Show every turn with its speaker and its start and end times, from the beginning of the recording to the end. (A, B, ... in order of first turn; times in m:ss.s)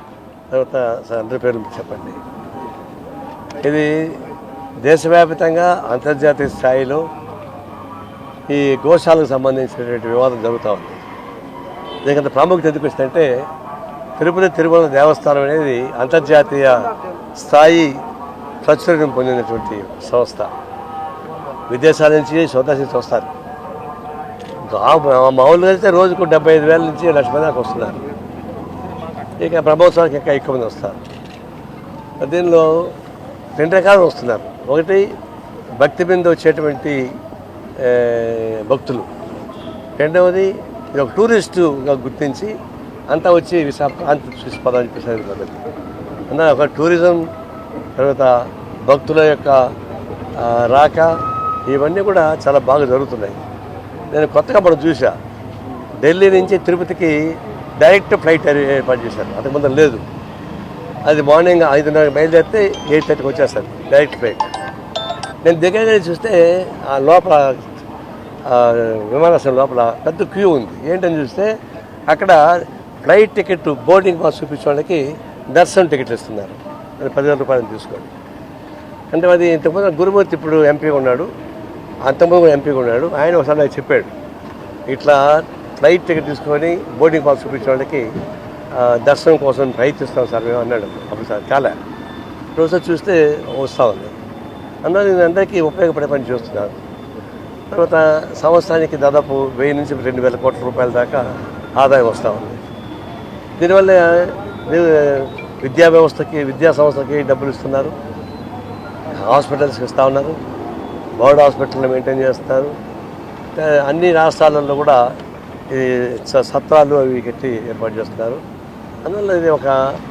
0:00.5-0:02.2 A
0:03.6-0:04.2 A
0:04.8-0:07.0 A
0:08.5-0:11.0 A
0:12.0-0:13.3 A
0:14.2-0:18.0 A
0:18.6-0:20.5 A
0:21.7-0:23.3 A
0:24.7-0:28.0 A
0:29.4-0:31.0 A
0:32.2-0:33.0 A
0:33.6-0:35.1 A
0:35.8-0:37.1 A
0:37.8-0:39.1 A
0:40.0-0:42.5 A
0:43.1-0:45.6 A
0:46.3-0:47.2 A
0:48.0-0:49.7 A
0:50.4-0:51.1 A
0:51.7-0:53.4 A
0:54.1-0:55.2 A
0:56.0-1:00.0 A
1:01.0-1:04.5 A
1:05.4-1:07.6 A
1:08.5-1:11.5 A
1:12.1-1:15.0 A
1:15.5-1:18.1 A
1:19.1-1:21.3 A
1:22.0-1:24.1 A
1:24.9-1:28.0 A
1:28.7-1:31.8 A
1:32.6-1:34.1 A
1:34.8-1:36.8 A
1:37.7-1:41.3 A
1:41.8-1:42.6 A
1:43.6-1:47.9 A
1:49.1-1:50.4 A
1:51.2-1:52.7 A
1:53.6-1:55.0 A
1:55.7-1:58.4 A
1:59.0-1:59.8 A